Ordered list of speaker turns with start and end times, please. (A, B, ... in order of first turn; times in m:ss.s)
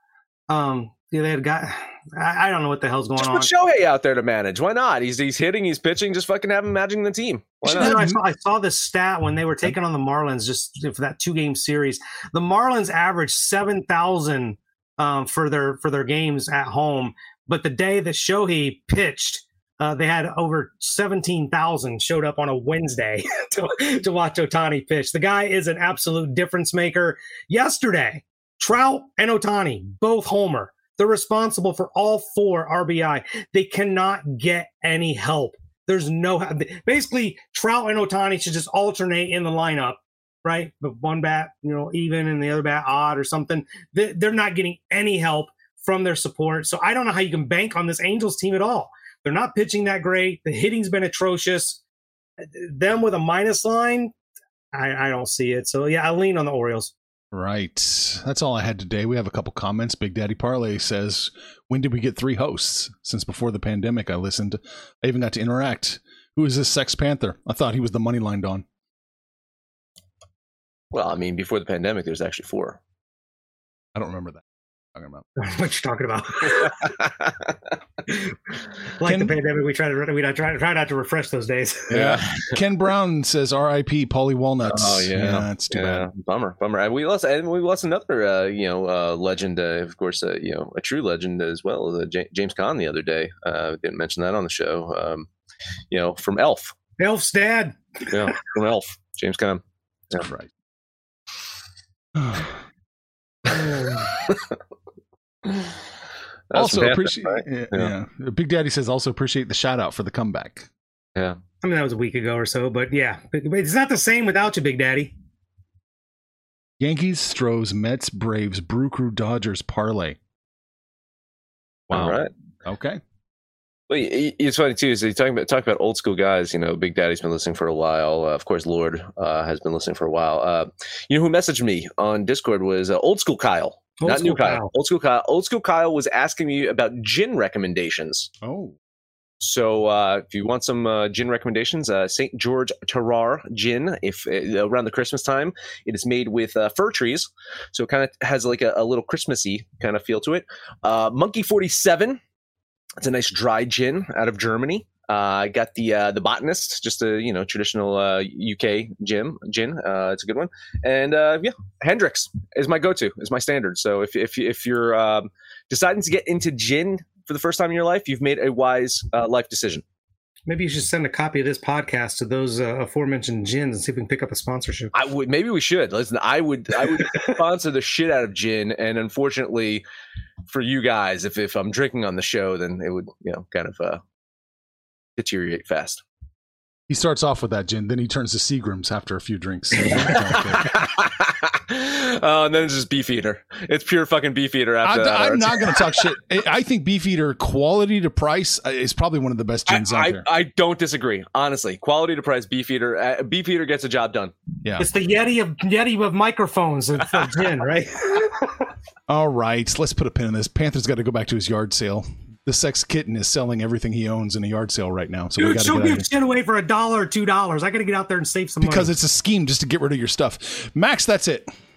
0:00.5-0:03.5 A
0:03.2-0:08.0 B
0:07.6-0:51.8 A
0:07.7-0:08.2 C
0:52.4-0:54.1 A
0:54.7-0:56.9 A
0:57.3-1:08.6 C
1:10.9-1:12.8 B
1:14.0-1:14.4 C
1:14.9-1:15.3 C
1:15.4-1:16.9 A
1:18.1-1:18.3 A
1:19.0-1:22.0 A
1:19.0-1:19.4 C
1:21.9-1:26.1 C
1:21.9-1:22.5 B
1:24.6-1:35.3 B
1:35.9-1:36.7 B
1:37.0-1:37.8 A
1:38.1-1:40.2 B
1:40.2-1:40.5 C
1:42.2-1:42.5 C
1:46.5-1:47.9 B
1:46.5-1:50.7 C
1:51.6-1:55.1 A
1:56.8-2:00.2 C
2:01.9-2:03.0 C
2:01.9-2:02.3 B
2:03.9-2:18.3 B
2:14.0-2:14.7 A
2:18.4-2:18.8 C
2:19.4-2:32.2 B
2:33.0-2:49.8 B
2:50.5-2:54.9 A
2:54.9-2:59.8 B
3:00.5-3:04.0 B
3:05.2-3:06.0 B
3:06.9-3:10.7 C
3:10.6-3:15.7 B
3:14.8-3:20.3 C
3:19.7-3:24.3 B
3:24.8-3:28.7 A
3:29.1-3:36.1 C
3:35.4-3:38.9 A
3:38.6-3:41.5 C